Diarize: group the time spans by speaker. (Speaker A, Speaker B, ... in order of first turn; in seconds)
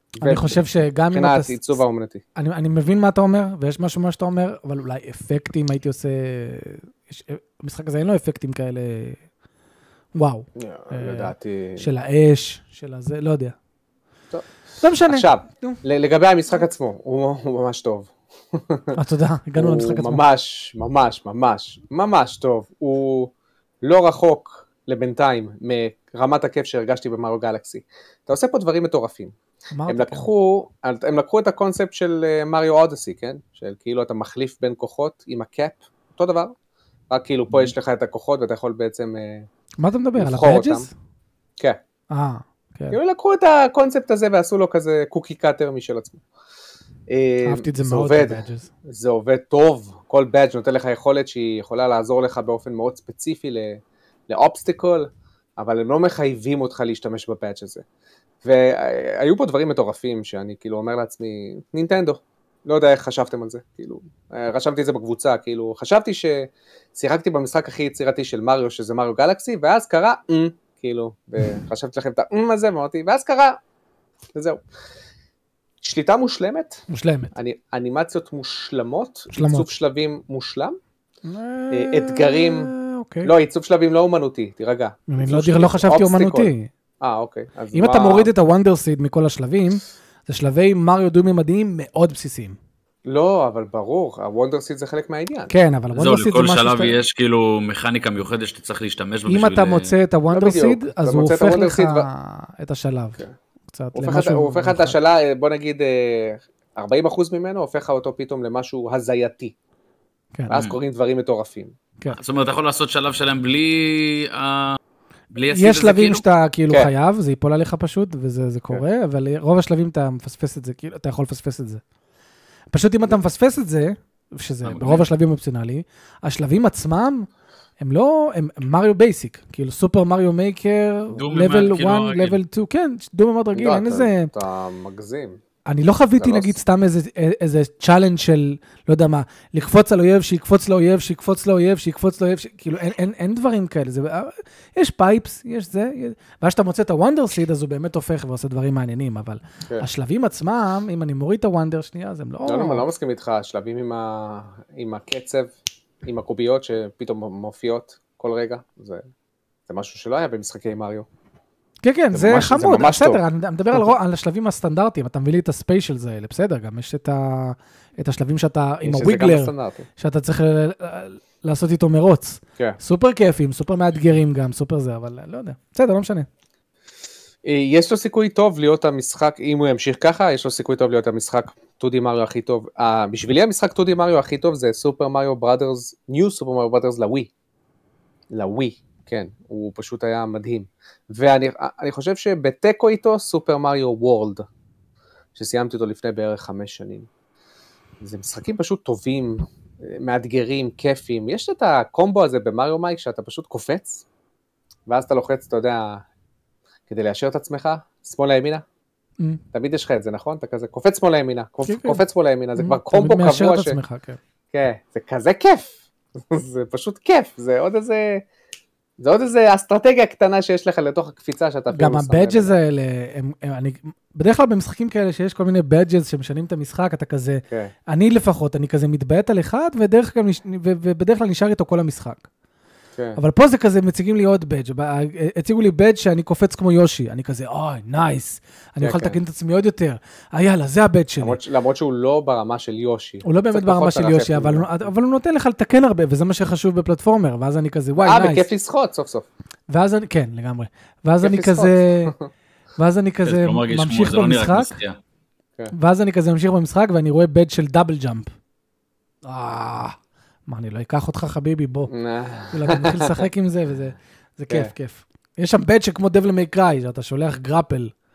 Speaker A: 0.2-2.2, 10.6-11.8, 15.1-18.9, 19.6-29.3, 29.9-36.5, 37.1-39.5, 40.2-40.9, 42.9-46.2, 47.1-57.8, 58.4-73.6, 74.3-74.6, 75.8-80.8, 81.7-82.7, 83.2-88.3, 93.0-95.5, 100.3-102.1, 103.9-109.5, 110.5-111.7, 133.5-135.4, 136.2-136.5, 152.4-159.0, 159.7-161.1, 162.1-163.9, 168.8-169.8, 177.4-187.3, 188.3-194.4, 195.3-197.1, 198.0-204.1, 204.9-206.0, 206.9-208.6, 209.5-213.8, 214.5-218.2, 219.0-222.6, 238.8-239.2, 241.2-244.9, 248.0-249.3, 251.2-252.2, 261.9-263.2
Speaker B: 0.2-1.8, 2.4-9.2, 10.1-13.5, 14.8-15.8, 18.9-20.2, 29.7-30.3, 39.8-40.9, 42.1-43.0, 47.4-48.7, 76.9-77.3, 79.3-79.7, 81.3-83.3, 85.1-86.7, 87.7-92.6, 95.5-97.0, 99.3-105.0, 115.5-121.8, 122.7-127.3, 127.8-134.3, 135.7-152.9, 161.8-176.3, 211.6-212.0, 212.6-214.2, 221.7-232.2, 233.2-241.4, 243.2-248.5, 249.7-252.1, 252.8-254.7, 255.7-258.3, 259.2-259.9, 260.5-261.9, 262.5-267.9
Speaker C: 95.9-99.9, 112.1-114.8, 115.3-116.2, 124.6-125.1, 131.1-132.4, 253.2-255.0